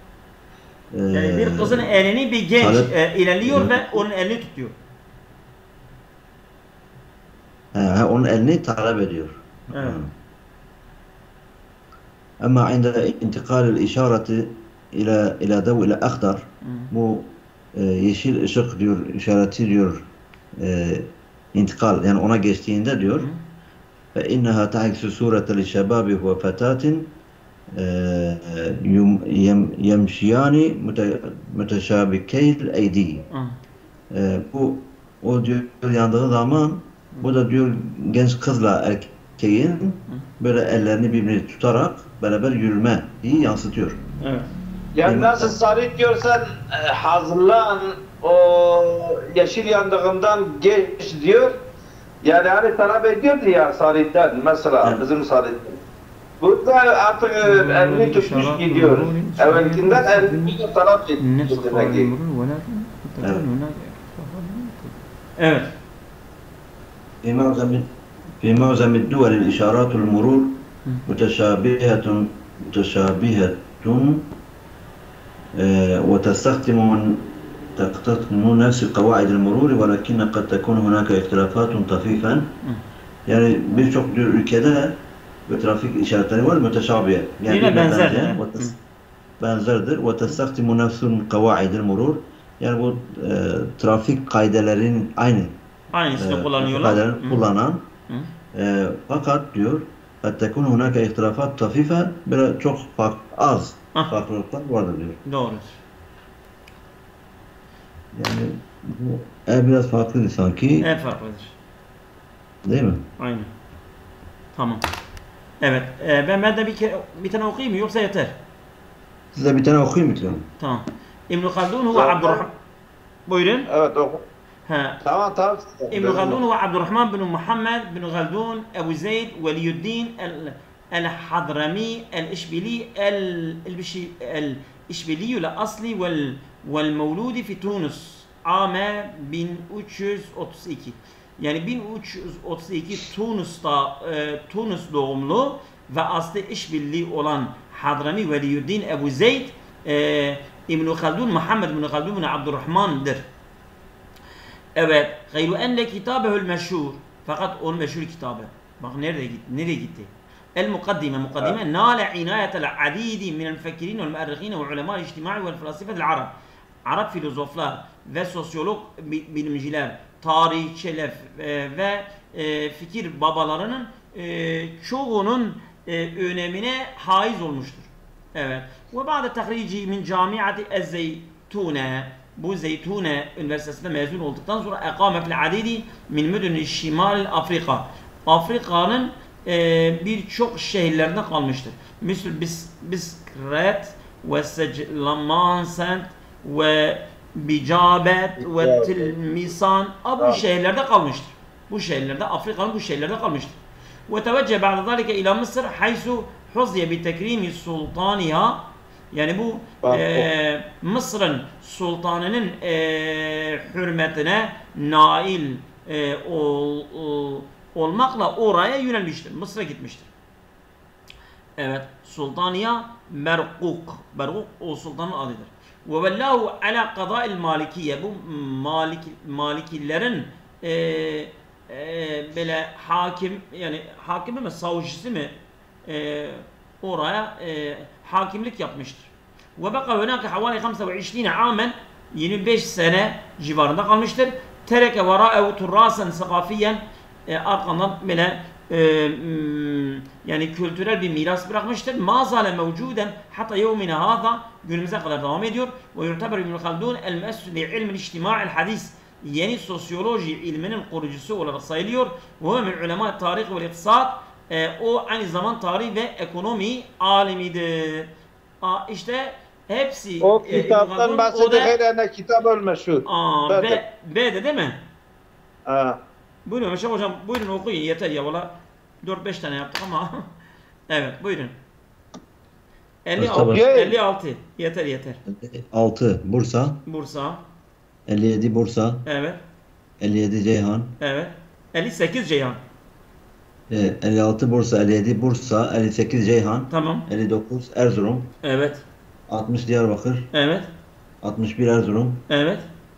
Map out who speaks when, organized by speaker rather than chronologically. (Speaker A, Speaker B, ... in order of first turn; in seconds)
Speaker A: 0.9-2.0, 2.6-4.0, 7.8-10.1, 12.4-20.1, 20.6-23.3, 24.1-27.1, 27.7-33.2, 34.1-44.0, 45.0-45.5, 67.2-67.9, 68.4-74.2, 75.5-82.5, 83.3-88.7, 89.4-95.6, 96.1-97.8, 98.5-105.2, 108.1-110.9, 112.7-113.0, 119.3-120.4, 283.2-283.6, 285.3-286.8, 288.1-289.0, 290.0-290.9, 293.7-298.3, 299.3-300.3, 301.2-302.2
Speaker B: 1.1-4.7, 9.7-10.0, 16.6-16.9, 33.3-33.6, 44.2-44.5, 57.4-60.6, 61.2-65.7, 87.5-88.8, 95.9-97.5, 105.3-105.8, 110.8-111.5, 113.2-113.5, 114.5-114.8, 115.6-118.3, 120.6-122.5, 123.3-123.7, 124.7-125.0, 125.9-153.3, 154.8-166.3, 166.9-208.6, 209.1-220.1, 221.6-235.3, 235.9-268.1, 268.6-271.7, 273.1-274.8, 276.5-280.2, 280.9-281.6, 283.1-285.2, 286.9-287.4, 289.1-289.4, 291.0-292.6, 296.7-297.1, 298.4-298.8, 300.3-300.7, 302.3-302.7
Speaker C: 45.0-51.5, 52.2-55.8, 56.4-62.1, 121.9-122.5, 123.7-124.2, 125.0-126.4, 198.4-199.1, 209.8-210.3, 270.2-273.8, 275.7-276.0, 283.5-284.0